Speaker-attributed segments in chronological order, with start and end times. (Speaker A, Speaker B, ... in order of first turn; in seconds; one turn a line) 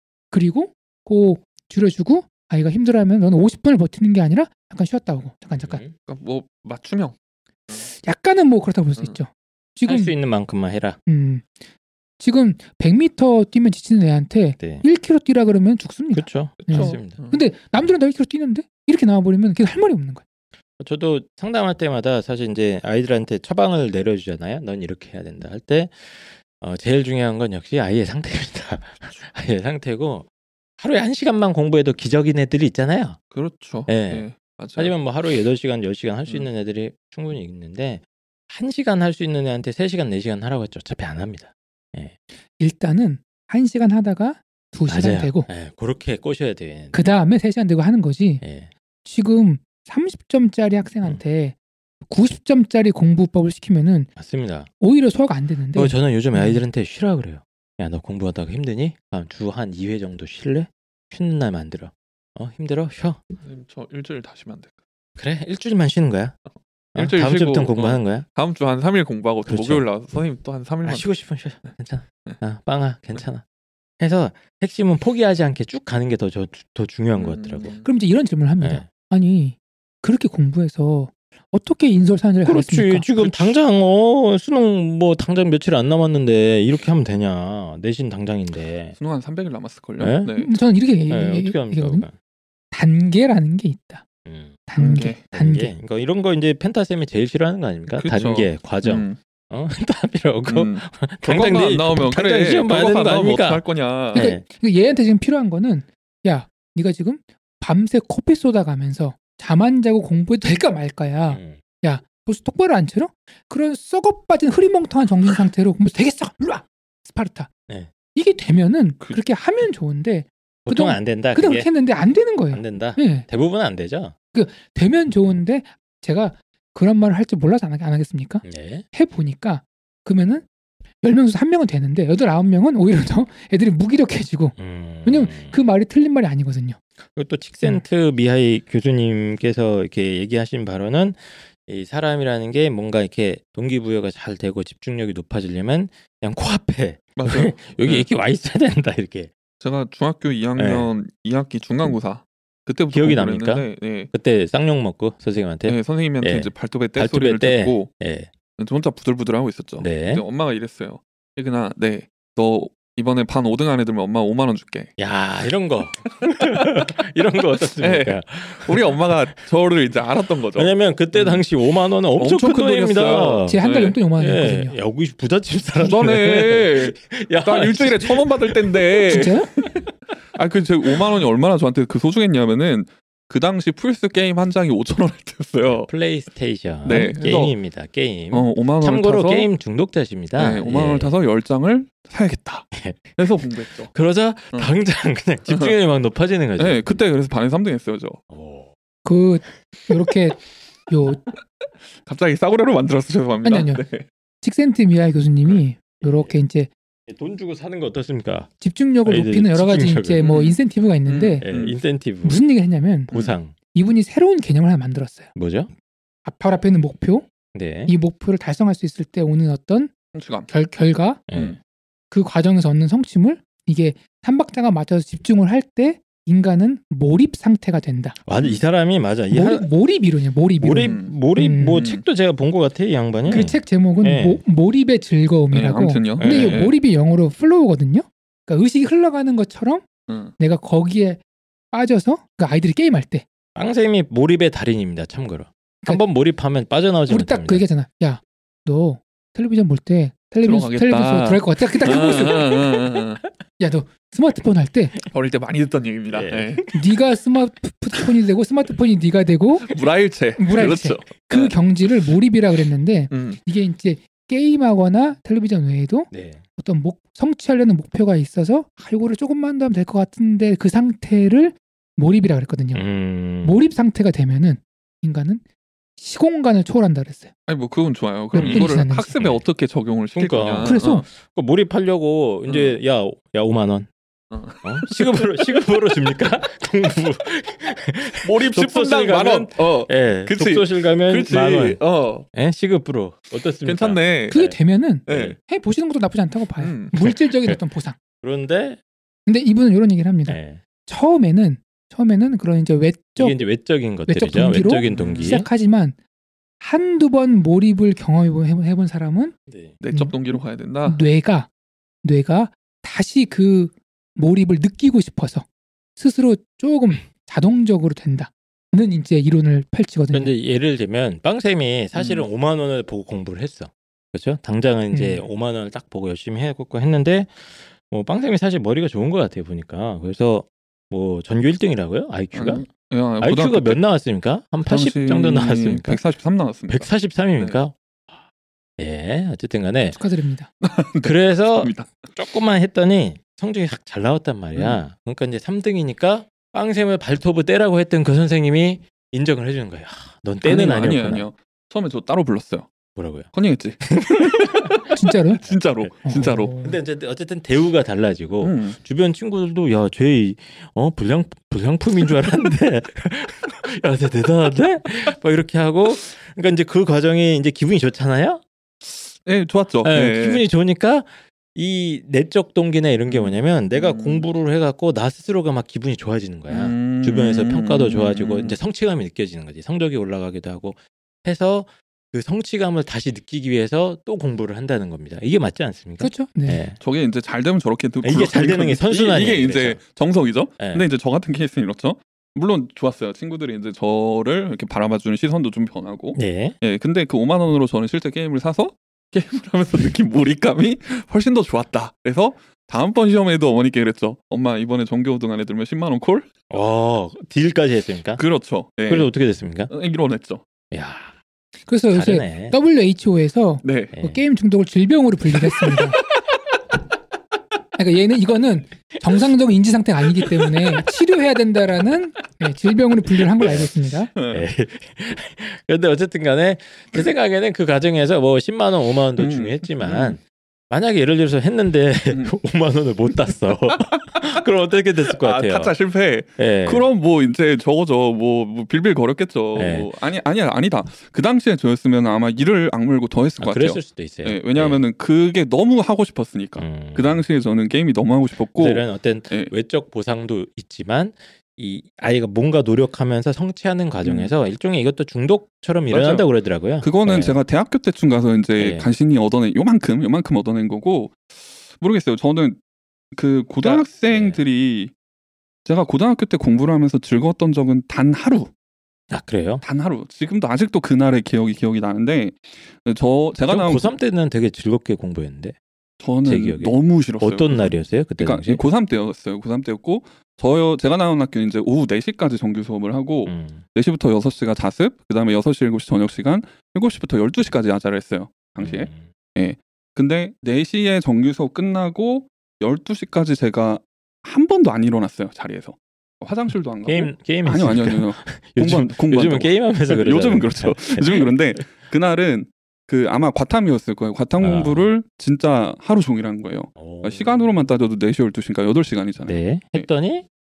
Speaker A: 0.3-5.8
Speaker B: 5.6-5.9
Speaker C: 6.0-7.1
Speaker A: 7.9-10.1
Speaker B: 9.8-11.0
Speaker A: 11.1-11.5
Speaker A: 12.2-20.2
Speaker B: 14.6-14.8
Speaker B: 16.1-17.2
Speaker C: 16.6-17.4
Speaker B: 20.8-30.3
Speaker B: 30.8-33.2
Speaker C: 33.3-34.9
Speaker B: 33.9-42.1
Speaker A: 42.6-45.5
Speaker B: 44.9-47.0
Speaker A: 46.9-48.4
Speaker B: 48.4-48.7
Speaker A: 49.0-51.5
Speaker A: 52.1-54.1
Speaker B: 54.1-54.7
Speaker A: 54.8-56.6
Speaker B: 55.7-63.2
Speaker C: 63.4-64.8
Speaker B: 65.2-66.3
Speaker B: 66.9-68.2
Speaker C: 66.9-71.1
Speaker B: 69.5-69.8
Speaker B: 70.8-73.4
Speaker B: 74.0-77.8
Speaker C: 77.1-77.9
Speaker A: 77.8-83.1
Speaker B: 78.6-78.9
Speaker B: 82.4-89.0
Speaker C: 83.2-83.5
Speaker C: 89.0-90.5
Speaker B: 90.0-90.3
Speaker A: 90.3-92.1
Speaker B: 91.1-92.1
Speaker A: 92.7-94.0
Speaker B: 94.2-104.4
Speaker A: 94.7-95.7
Speaker C: 94.8-95.2
Speaker C: 97.9-99.2
Speaker C: 100.5-104.3
Speaker A: 104.1-117.5
Speaker B: 111.3-111.6
Speaker A: 118.1-123.2
Speaker B: 120.7-121.7
Speaker B: 122.5-124.1
Speaker A: 124.3-130.4
Speaker B: 128.4-128.8
Speaker A: 131.0-136.8
Speaker B: 134.6-135.6
Speaker B: 137.1-149.3
Speaker C: 147.2-148.1
Speaker C: 149.6-154.1
Speaker B: 150.6-150.9
Speaker B: 152.9-158.3
Speaker C: 155.7-157.9
Speaker C: 158.6-164.9
Speaker B: 159.8-160.2
Speaker B: 165.0-169.0
Speaker C: 166.2-166.8
Speaker C: 167.8-171.4
Speaker B: 170.5-173.6
Speaker C: 172.1-174.0
Speaker A: 173.5-174.8
Speaker B: 174.2-179.8
Speaker C: 175.8-185.9
Speaker A: 179.1-179.5
Speaker B: 185.8-191.1
Speaker C: 186.8-187.6
Speaker C: 188.3-189.5
Speaker C: 190.3-193.9
Speaker B: 192.7-197.0
Speaker C: 195.5-195.7
Speaker C: 196.6-198.2
Speaker B: 198.3-198.7
Speaker A: 199.0-201.2
Speaker C: 201.9-204.1
Speaker A: 203.4-203.8
Speaker A: 204.4-206.7
Speaker B: 206.0-206.3
Speaker B: 207.1-208.5
Speaker A: 208.6-211.4
Speaker B: 209.0-210.2
Speaker C: 210.2-211.8
Speaker B: 211.4-212.4
Speaker A: 212.2-213.1
Speaker B: 213.1-213.5
Speaker A: 213.7-215.3
Speaker B: 215.3-215.7
Speaker A: 216.2-217.2
Speaker B: 217.5-217.9
Speaker A: 217.8-219.9
Speaker C: 220.1-220.5
Speaker A: 220.5-221.2
Speaker B: 221.3-221.6
Speaker A: 222.1-228.2
Speaker B: 228.2-229.7
Speaker A: 229.3-231.9
Speaker B: 230.6-234.4
Speaker C: 230.8-231.1
Speaker C: 231.7-232.0
Speaker C: 233.2-233.5
Speaker A: 233.3-239.9
Speaker C: 235.5-236.7
Speaker B: 236.2-236.7
Speaker C: 240.1-240.3
Speaker A: 240.4-241.2
Speaker A: 241.7-243.2
Speaker B: 243.5-247.6
Speaker A: 247.1-252.6
Speaker C: 250.4-253.2
Speaker A: 253.6-254.9
Speaker C: 255.1-256.6
Speaker B: 256.1-256.7
Speaker A: 256.7-259.7
Speaker C: 259.6-261.9
Speaker A: 260.4-272.9
Speaker C: 263.1-263.4
Speaker B: 266.1-266.4
Speaker B: 272.7-273.6
Speaker A: 273.4-275.4
Speaker A: 276.0-277.3
Speaker C: 277.5-281.1
Speaker A: 278.3-279.2
Speaker B: 278.3-279.4
Speaker B: 280.1-283.9
Speaker A: 280.6-281.1
Speaker C: 282.5-282.8
Speaker C: 284.3-285.6
Speaker B: 284.6-291.8
Speaker C: 288.2-292.2
Speaker B: 292.3-295.4
Speaker C: 293.6-294.4
Speaker A: 294.3-297.9
Speaker C: 295.1-295.4
Speaker C: 296.6-297.0
Speaker B: 297.1-297.6
Speaker B: 298.2-298.8
Speaker A: 299.3-303.4
Speaker B: 300.3-300.6
Speaker B: 303.2-305.5
Speaker A: 304.1-306.0
Speaker C: 304.8-305.4
Speaker A: 306.6-309.3
Speaker B: 309.5-309.8
Speaker C: 309.8-311.0
Speaker A: 310.9-311.5
Speaker A: 312.0-315.4
Speaker A: 315.9-320.3
Speaker B: 320.1-332.6
Speaker C: 321.9-322.2
Speaker A: 324.9-325.2
Speaker C: 332.3-333.8
Speaker B: 333.2-336.0
Speaker C: 334.6-337.6
Speaker B: 336.7-338.2
Speaker B: 338.8-340.0
Speaker A: 339.9-340.5
Speaker C: 340.6-342.1
Speaker B: 341.0-351.2
Speaker C: 344.5-344.8
Speaker C: 350.4-352.7
Speaker B: 352.9-353.3
Speaker C: 353.3-356.5
Speaker B: 353.8-354.7
Speaker A: 354.9-355.4
Speaker B: 355.4-368.4
Speaker A: 356.0-356.8
Speaker C: 358.4-358.8
Speaker C: 368.9-370.4
Speaker B: 369.8-386.8
Speaker C: 373.1-374.2
Speaker C: 376.5-378.6
Speaker A: 386.0-386.6
Speaker C: 386.8-406.3
Speaker B: 388.0-389.8
Speaker B: 390.6-390.9
Speaker B: 396.1-396.6
Speaker B: 406.5-408.2
Speaker C: 408.2-409.1
Speaker B: 408.9-409.7
Speaker C: 409.7-410.4
Speaker B: 410.7-411.1
Speaker A: 411.7-416.0
Speaker B: 411.9-412.6
Speaker C: 413.6-413.9
Speaker B: 413.9-414.2
Speaker A: 417.8-424.1
Speaker B: 423.4-435.7
Speaker C: 424.1-424.4
Speaker C: 429.2-430.2
Speaker C: 433.7-434.4
Speaker C: 435.1-449.5
Speaker B: 436.4-436.9
Speaker B: 439.5-439.9
Speaker B: 443.4-444.8
Speaker B: 446.6-447.2
Speaker B: 448.6-457.4
Speaker C: 454.0-454.3
Speaker C: 455.9-456.3
Speaker C: 456.8-462.6
Speaker B: 458.6-458.9
Speaker C: 463.1-464.9
Speaker B: 463.6-464.4
Speaker C: 465.6-468.5
Speaker B: 469.1-469.6
Speaker C: 469.6-473.9
Speaker B: 473.5-475.6
Speaker C: 476.0-509.9
Speaker B: 476.2-478.6
Speaker B: 483.2-483.6
Speaker B: 488.6-489.1
Speaker B: 496.9-501.3
Speaker B: 504.4-504.9
Speaker B: 506.8-507.6
Speaker B: 509.2-510.2